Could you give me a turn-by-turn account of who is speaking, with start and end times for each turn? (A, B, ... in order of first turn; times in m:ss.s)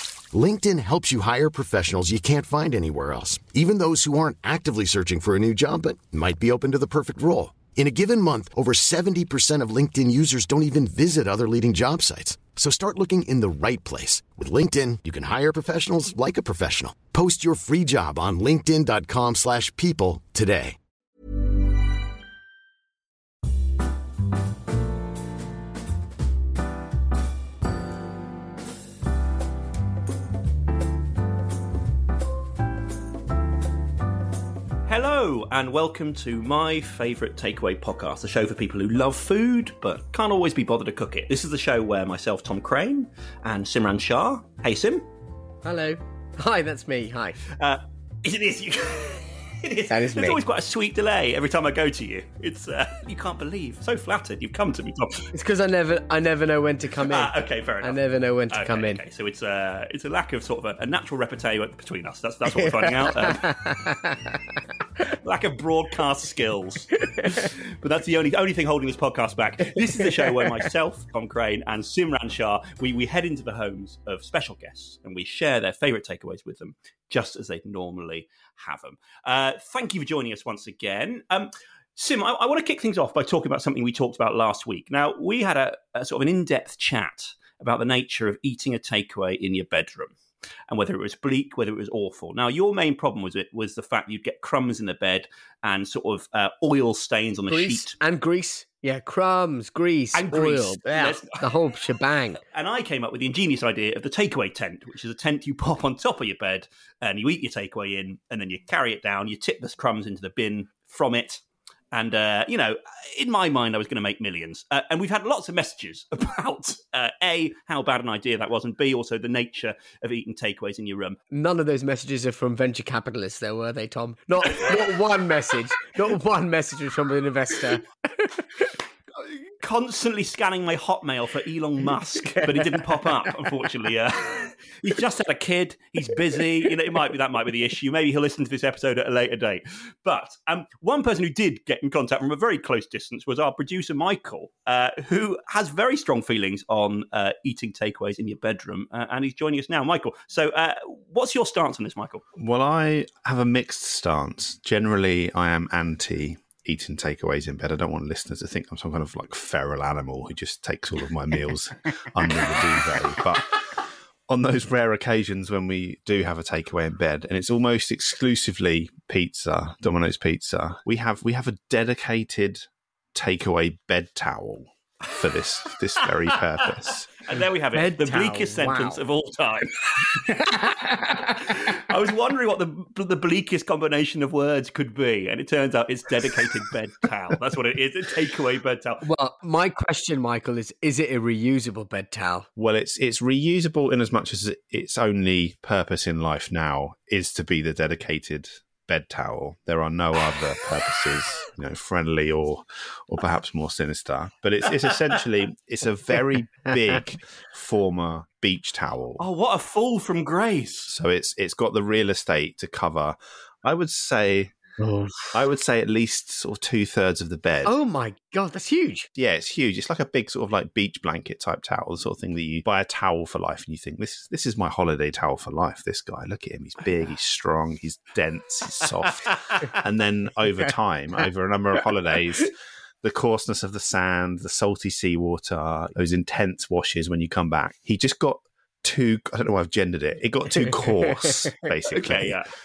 0:00.3-0:20.8 A
0:34.9-0:45.1 B
0:45.6-0:47.4 C
0:47.6-0:55.3 B
0:49.9-0:50.4 C
0:55.3-0:59.0 C
0:57.1-0:58.0 B
0:58.5-1:03.6 B
1:02.5-1:04.4 C
1:05.2-1:30.1 B
1:30.7-1:38.0 B
1:37.5-1:42.4 C
1:40.1-1:41.4 B
1:42.5-2:01.2 B
2:01.3-2:08.3 C
2:09.6-2:32.2 B
2:12.4-2:12.8 C
2:32.4-2:43.5 D
2:44.3-2:57.2 D
2:57.3-3:09.0 B
2:57.7-2:59.0 C
3:00.3-3:00.7 C
3:09.0-3:12.5 C
3:12.6-3:29.2 D
3:29.2-3:30.9 B
3:30.9-3:34.5 D
3:34.8-3:35.4 C
3:35.3-3:37.7 D
3:37.6-3:39.1 C
3:39.2-4:02.4 D
4:01.9-4:02.5 B